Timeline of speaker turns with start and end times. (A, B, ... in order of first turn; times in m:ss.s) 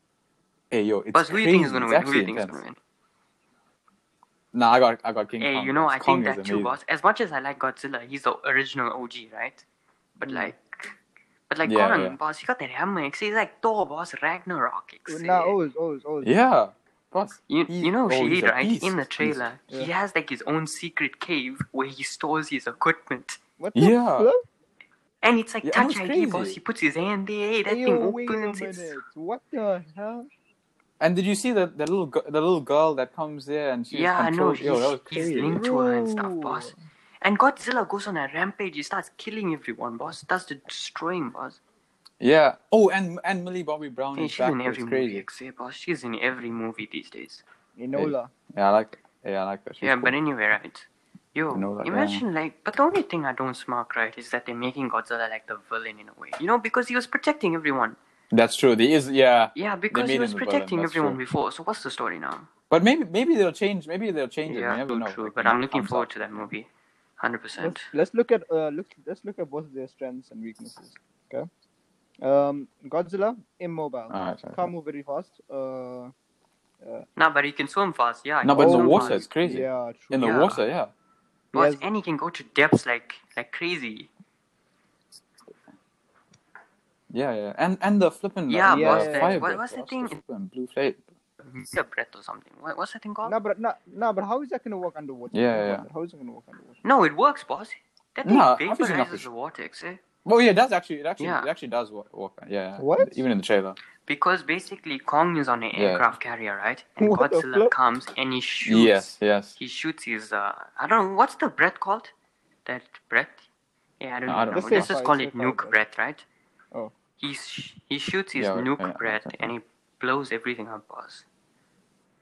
0:00.7-0:02.6 A
0:01.1-0:02.8 B
0:04.5-0:06.7 A
0:05.4-0:09.6 B
0:10.2-0:10.9 B
0:10.2-0:10.5 C
0:11.5-0:15.6 B
0:11.6-0:12.2 A
0:15.1-0:16.4 C
0:16.2-0:19.4 A
0:17.5-0:23.4 B
0:23.6-0:24.4 C
0:23.7-0:24.3 A
0:25.2-0:29.0 B
0:25.6-0:26.6 A
0:27.7-0:30.3 C
0:31.0-0:35.6 A
0:33.9-0:41.6 B
0:35.4-0:36.7 C
0:42.2-0:45.2 A
0:44.1-0:47.4 B
0:47.8-0:48.3 C
0:47.9-0:50.1 A
0:49.8-0:58.0 B
0:51.5-0:52.2 A
0:58.3-1:01.2 A
0:59.5-1:02.5 B
1:02.7-1:06.5 A
1:04.4-1:07.9 B
1:07.6-1:11.5 C
1:12.2-1:16.1 C
1:14.1-1:14.7 A
1:16.8-1:17.0 C
1:17.2-1:19.2 B
1:18.4-1:20.9 A
1:18.5-1:20.4 C
1:20.2-1:20.6 B
1:21.5-1:24.1 B
1:21.5-1:21.8 C
1:27.1-1:31.0 A
1:28.5-1:30.2 B
1:28.7-1:29.4 C
1:31.4-1:33.3 B
1:33.2-1:36.8 C
1:35.3-1:35.8 A
1:36.8-1:40.0 B
1:38.2-1:39.3 A
1:40.2-1:43.8 A
1:41.2-1:41.5 B
1:42.8-1:43.2 C
1:44.0-1:52.1 B
1:45.8-1:46.0 A
1:47.0-1:47.7 C
1:48.6-1:49.6 A
1:52.6-1:53.5 B
1:54.0-1:56.2 B
1:54.3-1:55.0 A
1:54.5-1:55.8 C
1:57.2-2:01.2 B
1:58.4-1:59.5 A